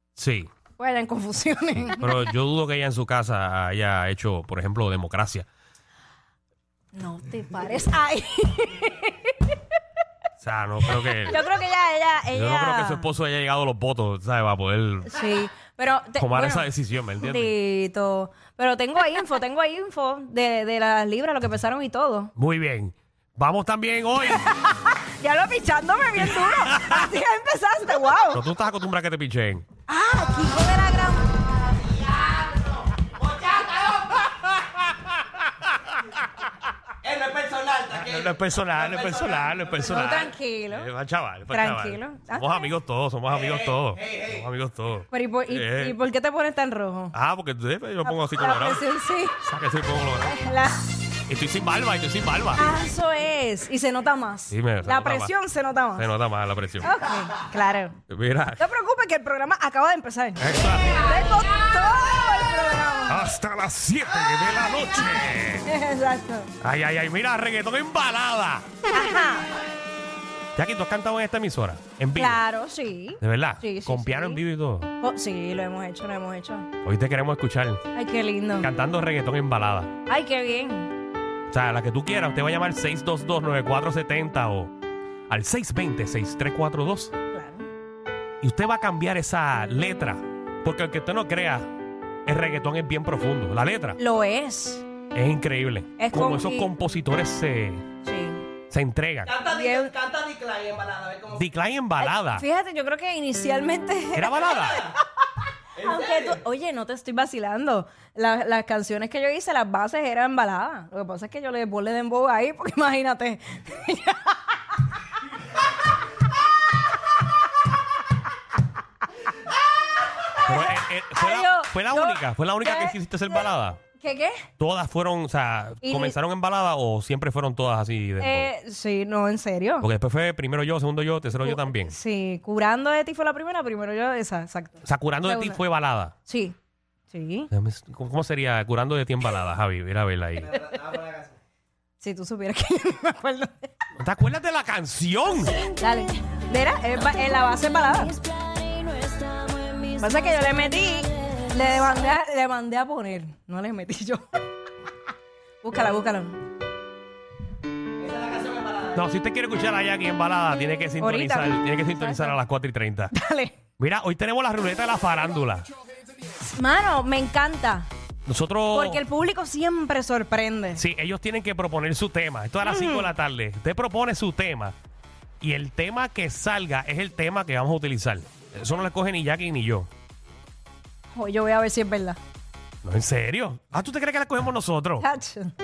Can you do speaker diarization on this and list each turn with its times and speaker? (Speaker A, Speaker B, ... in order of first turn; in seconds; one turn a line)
Speaker A: 0.2-0.5
Speaker B: 0.8-2.2
Speaker A: 2.0-5.5
Speaker B: 6.9-9.5
Speaker A: 10.4-11.4
Speaker B: 11.2-13.1
Speaker A: 12.3-15.2
Speaker B: 15.1-16.7
Speaker A: 16.2-17.5
Speaker B: 17.2-22.3
Speaker A: 22.4-24.4
Speaker B: 24.2-28.4
Speaker A: 26.2-27.1
Speaker A: 28.3-29.6
Speaker B: 29.9-31.4
Speaker C: 31.9-34.2
Speaker A: 34.7-36.2
Speaker C: 37.0-39.5
Speaker A: 37.9-46.0
Speaker B: 39.7-40.9
Speaker B: 41.5-42.7
Speaker C: 43.3-44.4
Speaker B: 45.1-47.1
Speaker A: 47.1-48.8
Speaker B: 48.0-49.4
Speaker A: 49.4-50.3
Speaker B: 50.2-50.9
Speaker A: 51.3-52.6
Speaker B: 52.5-56.1
Speaker A: 54.5-55.3
Speaker A: 56.0-56.9
Speaker B: 56.8-58.0
Speaker A: 58.1-58.6
Speaker B: 58.6-63.3
Speaker A: 60.4-61.1
Speaker A: 63.1-65.7
Speaker B: 65.6-66.5
Speaker A: 66.6-68.7
Speaker B: 68.9-69.5
Speaker A: 70.6-72.4
Speaker B: 72.1-74.4
Speaker A: 73.2-74.9
Speaker B: 75.0-76.7
Speaker A: 76.8-77.8
Speaker B: 77.9-78.7
Speaker A: 78.6-80.0
Speaker B: 80.1-80.9
Speaker A: 81.5-84.7
Speaker A: 85.3-87.1
Speaker B: 87.3-87.7
Speaker A: 88.4-91.7
Speaker A: 92.2-94.0
Speaker B: 94.0-94.8
Speaker A: 95.1-97.8
Speaker B: 96.0-96.7
Speaker B: 98.0-98.4
Speaker A: 98.7-99.3
Speaker C: 99.3-101.4
Speaker B: 99.4-99.9
Speaker A: 101.3-102.4
Speaker B: 102.0-105.0
Speaker A: 104.1-104.9
Speaker C: 105.8-106.4
Speaker B: 105.8-114.6
Speaker B: 120.3-123.4
Speaker A: 120.4-123.8
Speaker B: 124.0-124.5
Speaker A: 124.6-128.5
Speaker B: 125.8-126.2
Speaker B: 128.2-129.8
Speaker A: 129.8-131.9
Speaker B: 131.4-135.6
Speaker A: 134.8-136.1
Speaker B: 136.3-136.6
Speaker B: 137.1-137.5
Speaker A: 137.5-140.6
Speaker C: 140.6-141.3
Speaker B: 142.0-143.7
Speaker A: 144.0-145.6
Speaker B: 145.6-148.2
Speaker B: 149.8-154.4
Speaker B: 155.6-156.4
Speaker C: 158.0-158.9
Speaker A: 158.9-163.1
Speaker B: 161.0-162.4
Speaker B: 163.1-163.6
Speaker A: 163.8-165.7
Speaker B: 166.4-167.9
Speaker A: 168.3-169.0
Speaker B: 168.7-170.8
Speaker A: 170.8-174.7
Speaker B: 172.6-173.1
Speaker A: 175.4-179.9
Speaker B: 181.1-182.2
Speaker A: 182.8-185.1
Speaker B: 185.0-185.5